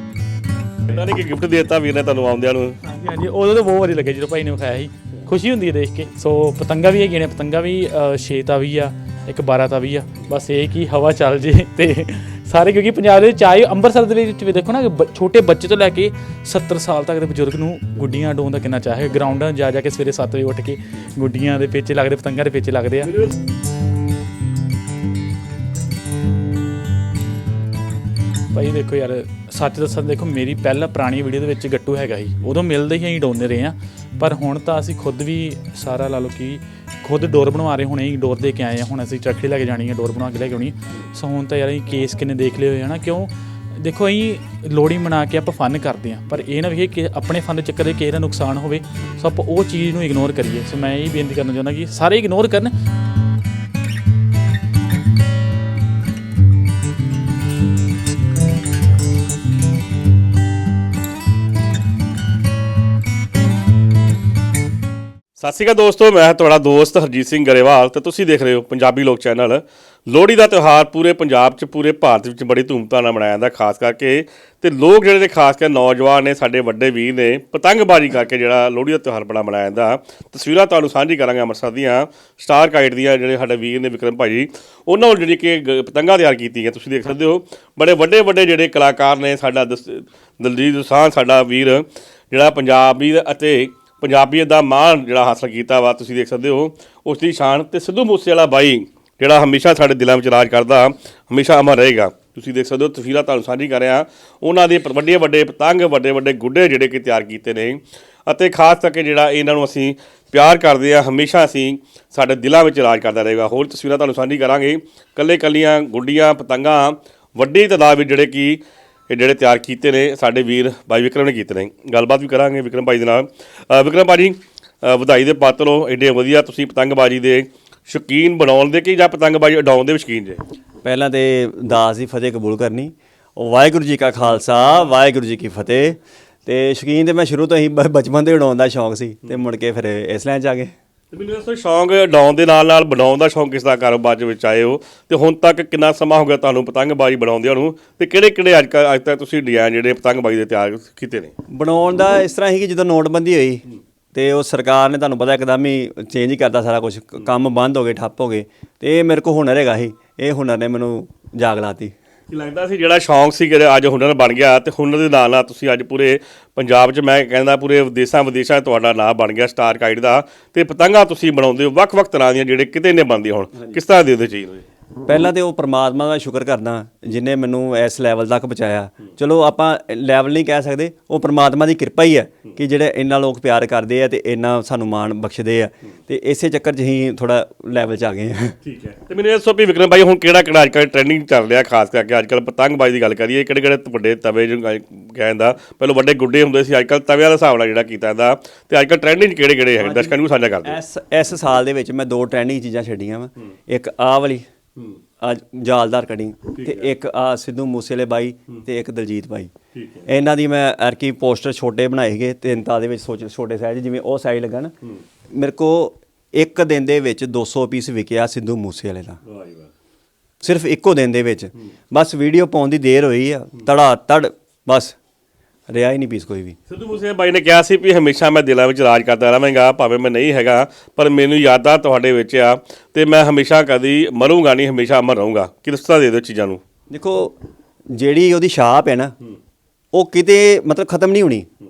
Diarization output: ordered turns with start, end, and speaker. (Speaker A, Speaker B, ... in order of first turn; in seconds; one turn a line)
Speaker A: 0.9-2.8
Speaker B: 2.8-23.2
Speaker B: 28.5-52.7
Speaker A: 65.4-130.4
Speaker C: 130.8-140.7
Speaker A: 141.1-151.3
Speaker C: 151.5-161.9
Speaker A: 162.3-174.7
Speaker C: 175.1-188.6
Speaker A: 188.6-200.8
Speaker C: 199.8-204.4
Speaker C: 205.2-209.5
Speaker A: 206.5-206.9
Speaker A: 209.7-210.1
Speaker C: 210.1-214.7
Speaker C: 215.3-219.2
Speaker A: 219.2-219.7
Speaker C: 220.4-224.9
Speaker C: 225.7-226.6
Speaker A: 226.7-236.6
Speaker C: 236.9-237.3
Speaker C: 237.9-239.1
Speaker C: 239.9-241.5